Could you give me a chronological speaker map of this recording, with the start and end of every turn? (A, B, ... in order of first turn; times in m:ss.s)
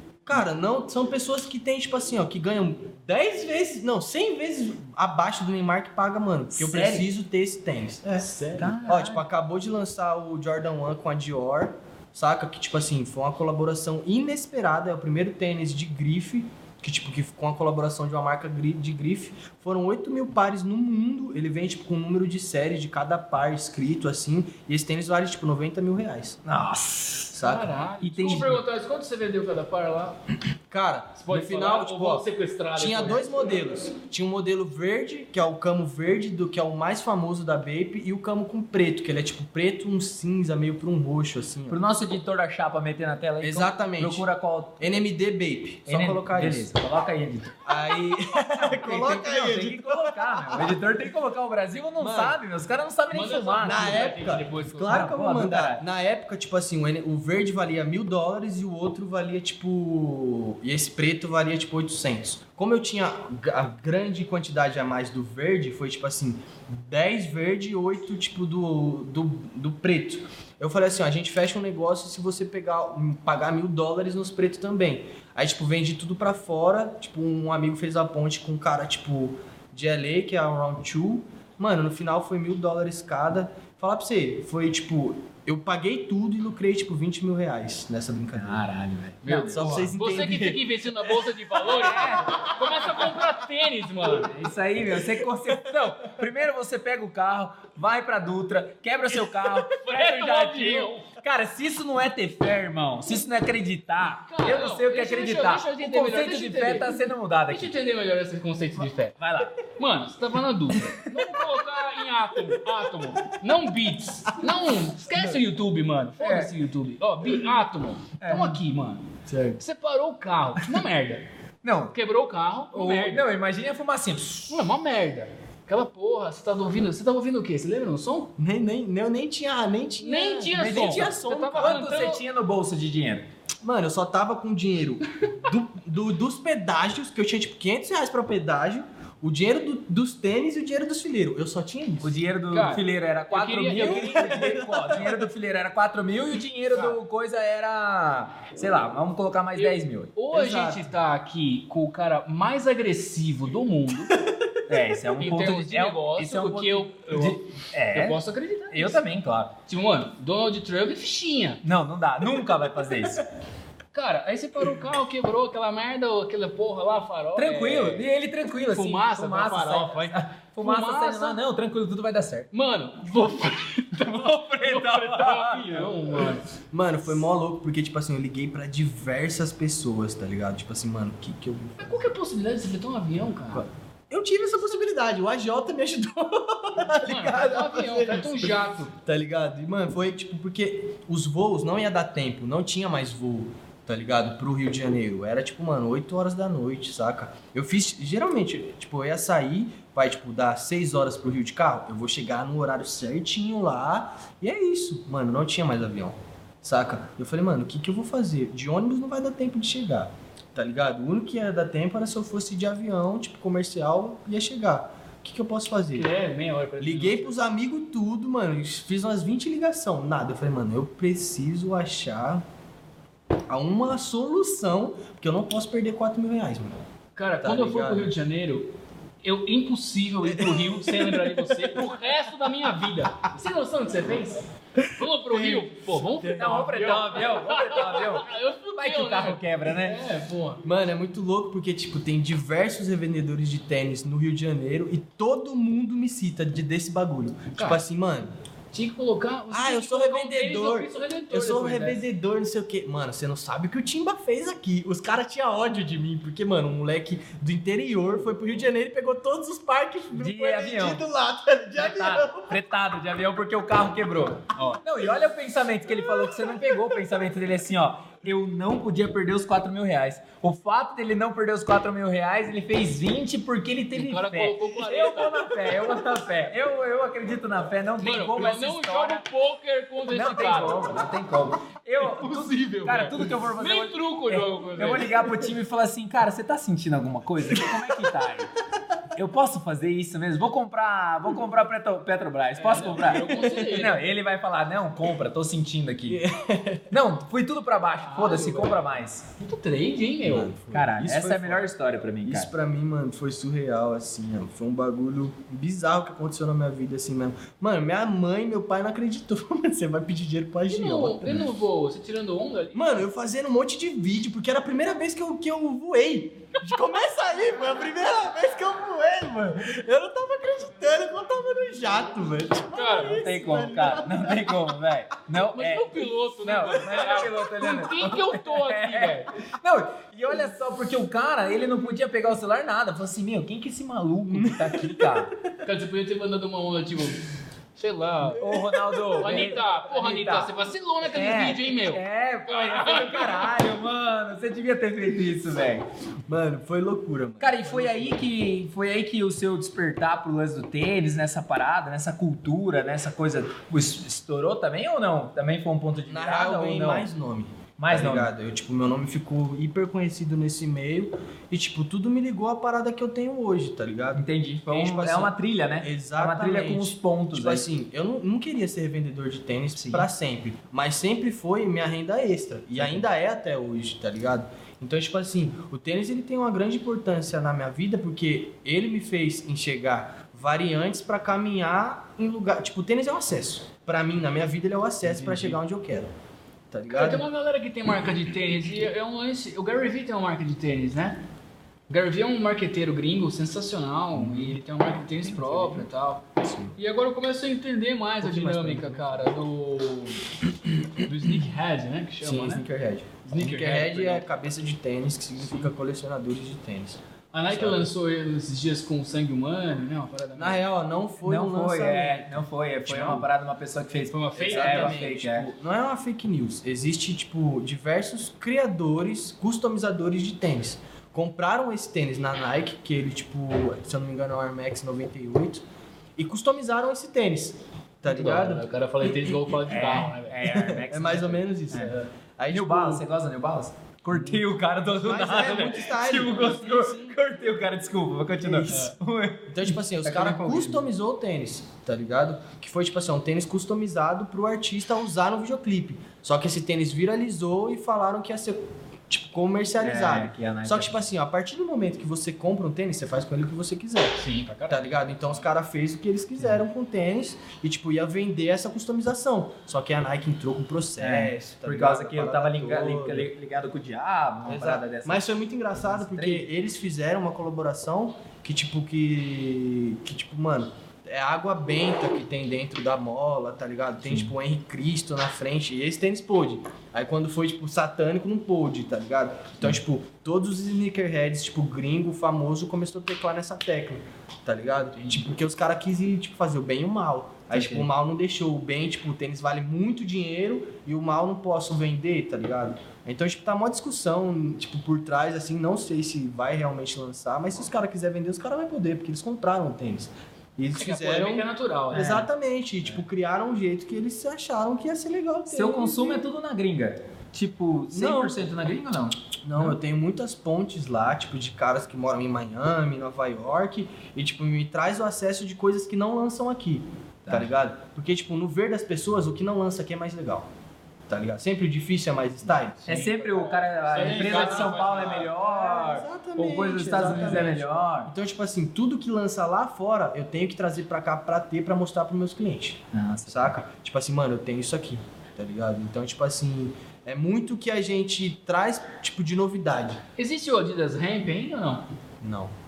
0:00.3-0:08.4 A
0:06.5-0:07.1 B
0:08.2-0:08.8 C
0:08.6-0:09.2 B
0:08.9-0:26.4 A
0:26.4-0:27.4 B
0:27.4-0:27.7 A
0:27.4-0:30.2 C
0:28.0-0:28.6 B
0:30.7-0:41.8 A
0:31.2-0:33.5 C
0:41.7-0:44.9 B
0:43.4-0:46.7 A
0:45.9-0:54.1 B
0:47.6-0:50.8 A
0:52.0-0:52.4 A
0:53.1-0:55.1 C
0:53.6-1:28.6 A
0:54.9-0:55.8 B
1:28.3-1:29.9 B
1:29.2-1:34.4 C
1:29.5-1:30.6 A
1:31.6-1:32.4 B
1:34.1-1:47.7 B
1:39.6-1:41.1 C
1:44.3-1:59.1 C
1:49.2-1:49.6 B
1:56.2-1:56.5 B
1:58.2-1:58.6 B
1:59.3-1:59.6 A
1:59.6-2:01.2 C
2:00.6-2:00.8 B
2:01.6-2:02.0 B
2:01.9-2:03.2 C
2:02.7-2:04.6 B
2:04.5-2:08.3 C
2:08.4-2:12.1 A
2:10.0-2:12.2 C
2:10.5-2:13.3 B
2:13.6-2:22.2 A
2:22.0-2:30.1 B
2:22.5-2:24.4 C
2:23.8-2:25.2 A
2:29.6-2:34.2 C
2:30.3-2:30.8 A
2:34.1-2:34.6 A
2:34.7-2:39.5 B
2:35.2-2:39.0 C
2:39.7-2:41.6 C
2:41.6-2:43.2 B
2:43.9-2:48.1 C
2:47.4-2:52.5 B
2:48.6-2:51.4 C
2:52.5-2:56.4 C
2:54.0-2:56.3 B
2:56.7-3:02.0 A
3:01.8-3:03.6 C
3:03.5-3:36.1 A
3:07.0-3:08.9 C
3:35.9-3:37.4 C
3:36.8-3:42.4 A
3:43.5-3:46.8 A
3:47.2-3:48.7 C
3:47.4-3:48.1 A
3:49.2-3:54.4 C
3:50.3-3:51.7 A
3:54.9-3:56.8 A
3:55.0-4:00.6 C
3:56.4-4:00.0 B
4:00.6-4:08.3 A
4:07.6-4:07.8 C
4:08.7-4:12.0 C
4:09.5-4:22.6 A
4:20.1-4:21.0 B
4:21.8-4:39.2 B
4:24.6-4:24.8 C
4:25.9-4:27.0 A
4:33.9-4:35.9 C
4:38.0-4:40.9 C
4:40.1-4:48.5 B
4:42.0-4:45.2 C
4:49.2-4:56.2 B
4:52.6-4:54.0 C
4:56.1-4:56.9 A
4:56.9-4:59.3 B
4:58.0-5:00.5 C
5:00.2-5:01.7 A
5:00.7-5:02.5 B
5:02.2-5:11.5 A
5:10.7-5:13.0 C
5:12.7-5:24.7 A
5:22.7-5:23.2 C
5:23.0-5:35.3 B
5:25.4-5:29.3 C
5:34.3-5:35.3 A
5:35.6-5:37.2 C
5:37.8-5:43.6 C
5:38.3-5:39.4 A
5:38.4-5:40.5 B
5:41.1-5:45.9 B
5:46.3-5:48.2 A
5:47.4-5:57.1 B
5:56.1-6:26.1 A
5:57.8-5:58.3 B
6:04.2-6:07.7 B
6:09.8-6:10.1 B
6:12.8-6:13.1 B
6:25.0-6:25.6 C
6:26.7-6:27.2 A
6:26.9-6:31.2 C
6:31.9-6:40.4 C
6:34.1-6:34.6 A
6:35.2-6:35.9 A
6:36.4-6:36.8 A
6:38.2-6:39.3 A
6:41.0-6:42.7 C
6:42.2-6:47.9 A
6:43.2-6:44.3 C
6:45.4-6:45.7 C
6:47.3-6:50.7 C
6:50.4-6:52.3 A
6:51.2-6:55.5 B
6:52.9-6:53.3 C
6:54.1-6:55.0 C
6:54.4-7:05.6 A
7:06.2-7:08.6 A
7:08.0-7:10.4 C
7:09.6-7:11.9 B
7:10.4-7:13.1 A
7:12.5-7:20.8 B
7:14.1-7:17.2 A
7:18.4-7:18.8 A
7:18.7-7:19.0 C
7:19.5-7:43.3 A
7:29.8-7:31.0 B
7:34.2-7:35.4 C
7:41.0-7:46.5 B
7:44.5-8:26.3 A
7:54.0-7:54.4 B
8:07.5-8:07.9 B
8:20.8-8:22.3 C
8:21.9-8:22.3 B
8:25.5-8:29.8 B
8:27.9-8:28.4 A
8:29.4-8:40.5 A
8:37.3-8:37.5 B
8:41.1-8:42.8 A
8:42.8-8:45.3 C
8:42.9-8:48.1 B
8:44.0-9:00.0 A
8:47.0-8:47.4 C
8:52.9-8:53.6 B
9:00.2-9:01.8 C
9:02.2-9:02.5 A